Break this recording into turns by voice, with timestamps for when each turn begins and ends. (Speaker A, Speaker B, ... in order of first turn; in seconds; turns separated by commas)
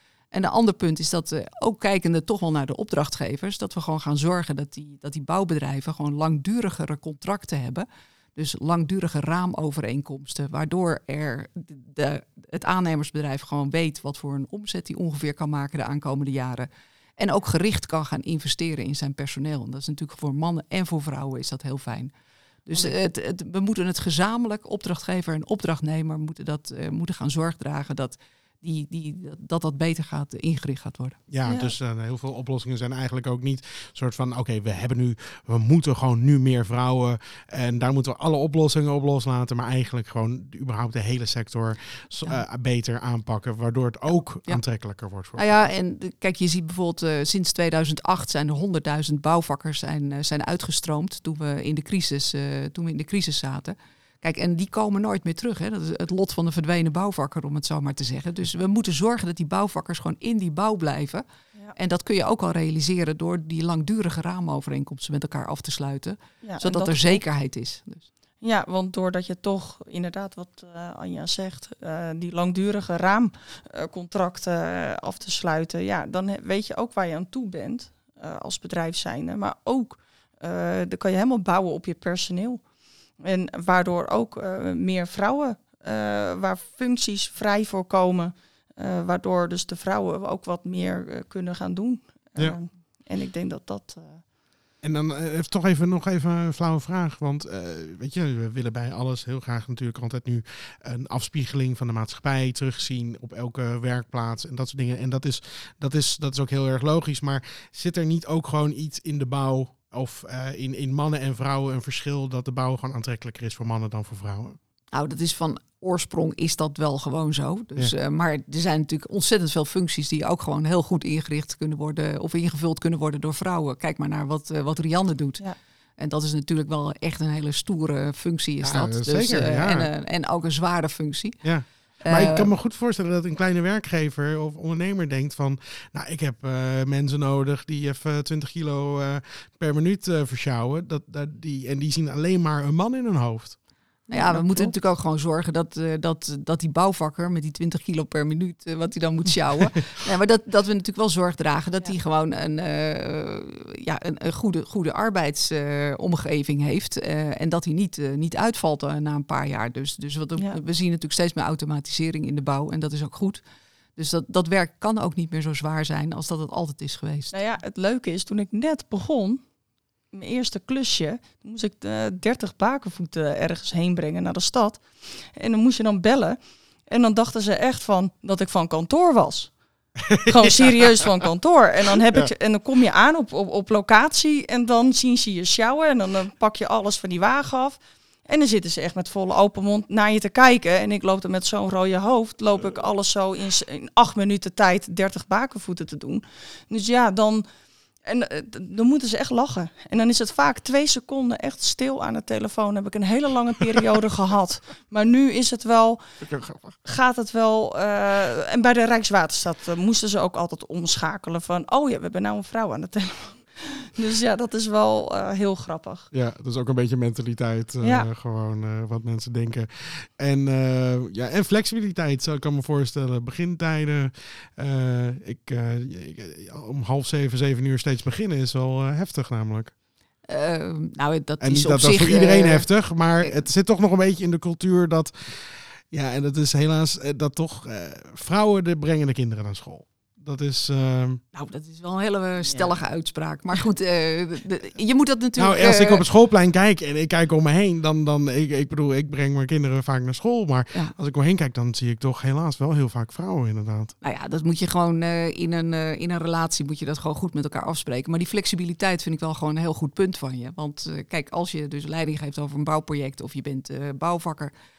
Speaker A: 0.3-22.1, Speaker A: 22.7-31.2, Speaker B: 31.3-45.5, Speaker C: 31.4-31.7, Speaker A: 45.3-68.1, Speaker C: 66.4-67.2, Speaker C: 68.4-82.6, Speaker C: 83.2-94.2, Speaker B: 94.8-114.6, Speaker A: 114.9-125.4, Speaker A: 126.0-131.4, Speaker B: 128.6-129.9, Speaker B: 131.4-143.6, Speaker A: 132.0-132.5, Speaker A: 144.1-163.4, Speaker C: 144.1-144.7, Speaker A: 164.0-167.3, Speaker C: 167.3-169.4, Speaker C: 170.1-174.8, Speaker C: 175.3-179.5, Speaker B: 180.1-181.2, Speaker C: 180.2-197.4, Speaker B: 181.9-182.3, Speaker C: 198.0-206.0, Speaker B: 206.2-206.8, Speaker C: 206.8-216.1, Speaker B: 216.1-229.7, Speaker C: 217.8-218.1, Speaker A: 230.3-232.7, Speaker B: 231.4-241.2, Speaker A: 241.3-246.0, Speaker B: 245.4-253.9, Speaker A: 254.0-264.5